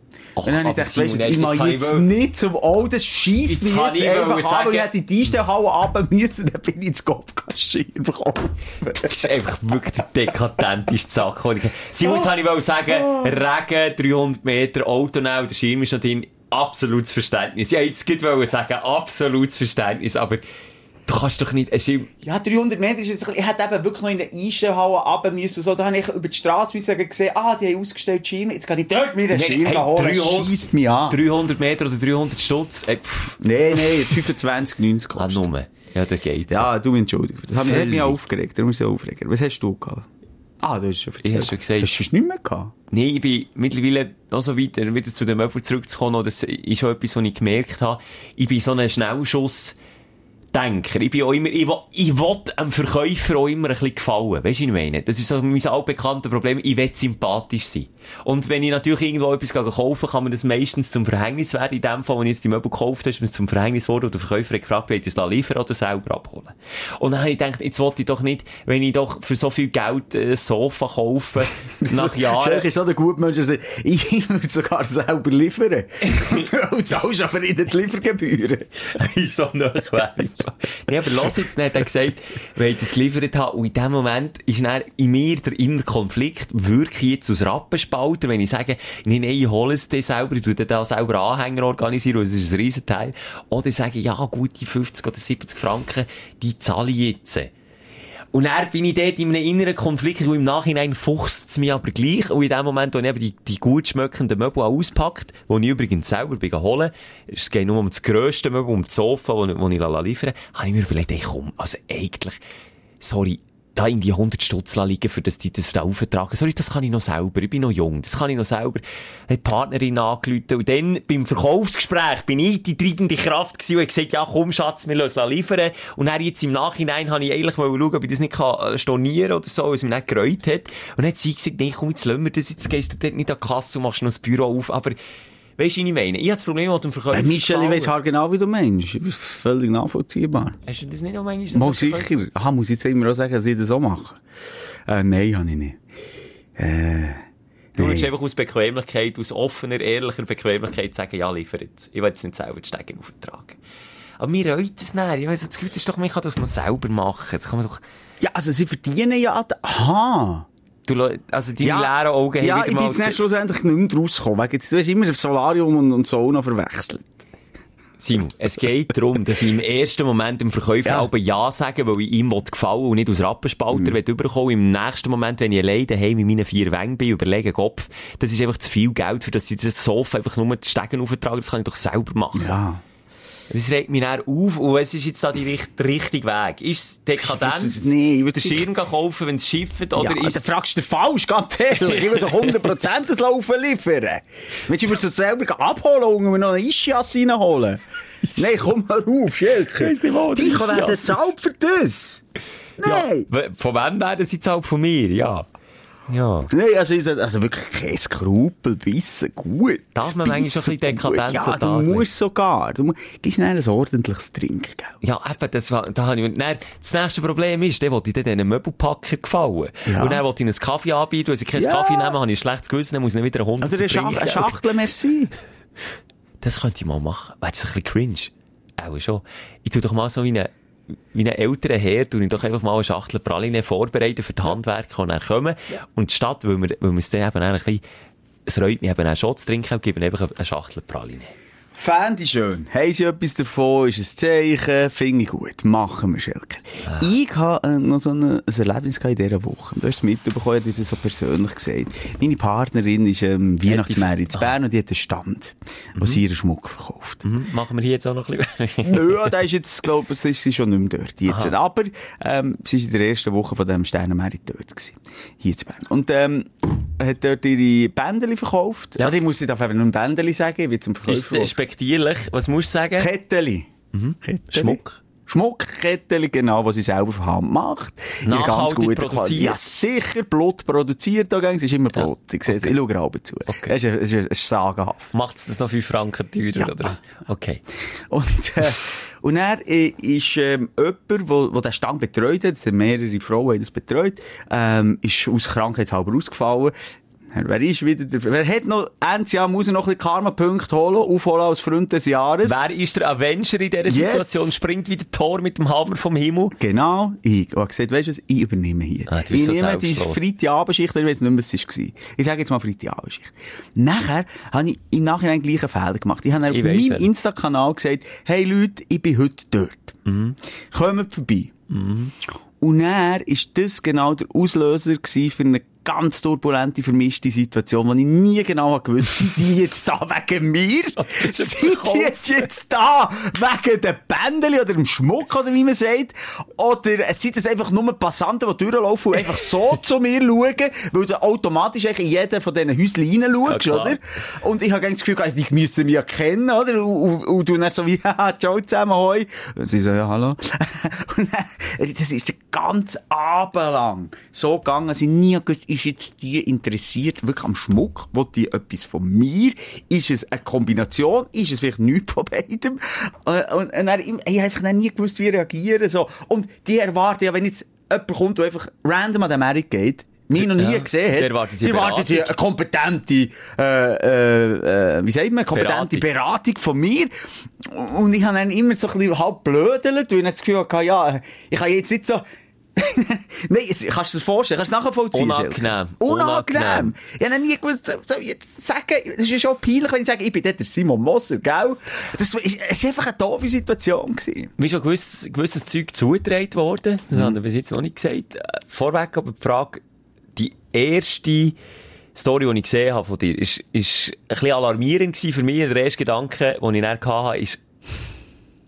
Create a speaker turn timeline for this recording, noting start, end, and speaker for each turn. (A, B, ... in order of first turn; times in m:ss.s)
0:00.4-0:02.1 A
0:00.4-0:09.3 B
0:03.5-0:04.9 A
0:08.9-0:20.4 A
0:12.0-0:12.3 B
0:12.9-0:13.4 B
0:21.1-0:22.1 A
0:22.2-0:31.2 B
0:29.3-0:30.5 A
0:31.1-0:34.2 A
0:33.4-0:35.5 B
0:35.2-0:36.7 A
0:36.5-0:40.1 B
0:37.6-0:38.2 A
0:40.6-0:42.7 B
0:41.2-0:41.9 A
0:42.9-0:49.8 A
0:50.5-1:12.7 A
1:11.8-1:18.7 B
1:16.0-1:16.4 A
1:18.9-1:37.5 A
1:38.3-1:52.4 A
1:53.0-2:15.0 A
2:15.6-2:17.9 A
2:17.1-2:20.6 B
2:20.7-2:22.1 A
2:21.5-2:24.2 B
2:24.9-2:25.8 B
2:26.6-2:27.2 B
2:27.8-2:28.1 B
2:27.8-2:33.6 A
2:34.2-2:37.8 A
2:38.2-2:40.5 B
2:40.9-2:43.2 A
2:41.6-2:47.2 B
2:48.0-3:02.6 A
3:02.4-3:02.8 B
3:03.5-3:10.5 A
3:07.2-3:08.7 B
3:10.0-3:17.8 B
3:12.1-3:12.5 A
3:18.3-3:22.2 B
3:19.8-3:21.3 A
3:22.8-3:23.3 B
3:22.8-3:25.5 A
3:26.1-3:26.5 A
3:26.5-3:35.0 B
3:30.0-3:32.1 A
3:35.0-3:44.6 A
3:39.9-3:40.2 B
3:41.6-3:42.2 B
3:43.6-3:45.3 B
3:46.4-3:50.5 A
3:51.1-3:57.8 A
3:58.5-4:01.3 A
4:01.8-4:17.2 B
4:13.7-4:14.5 A
4:17.2-4:19.3 A
4:18.8-4:31.5 B
4:31.1-4:33.1 A
4:33.0-4:33.7 B
4:33.9-4:35.0 A
4:34.2-4:45.1 B
4:38.2-4:39.6 A
4:42.0-4:42.7 A
4:43.5-4:43.8 A
4:45.1-4:47.6 A
4:46.6-4:46.9 B
4:48.1-4:56.7 B
4:57.3-5:02.7 B
5:02.4-5:06.6 A
5:03.9-5:04.5 B
5:06.6-5:20.0 B
5:09.1-5:10.2 A
5:16.5-5:17.1 A
5:20.1-5:20.4 A
5:20.7-5:21.5 B
5:21.7-5:22.1 A
5:22.6-6:34.5 B
5:31.0-5:32.4 A
5:43.5-5:44.0 A
6:10.4-6:12.3 A
6:15.5-6:16.0 A
6:25.1-6:27.0 A
6:34.6-6:39.8 A
6:40.4-6:41.6 A
6:42.2-6:47.6 A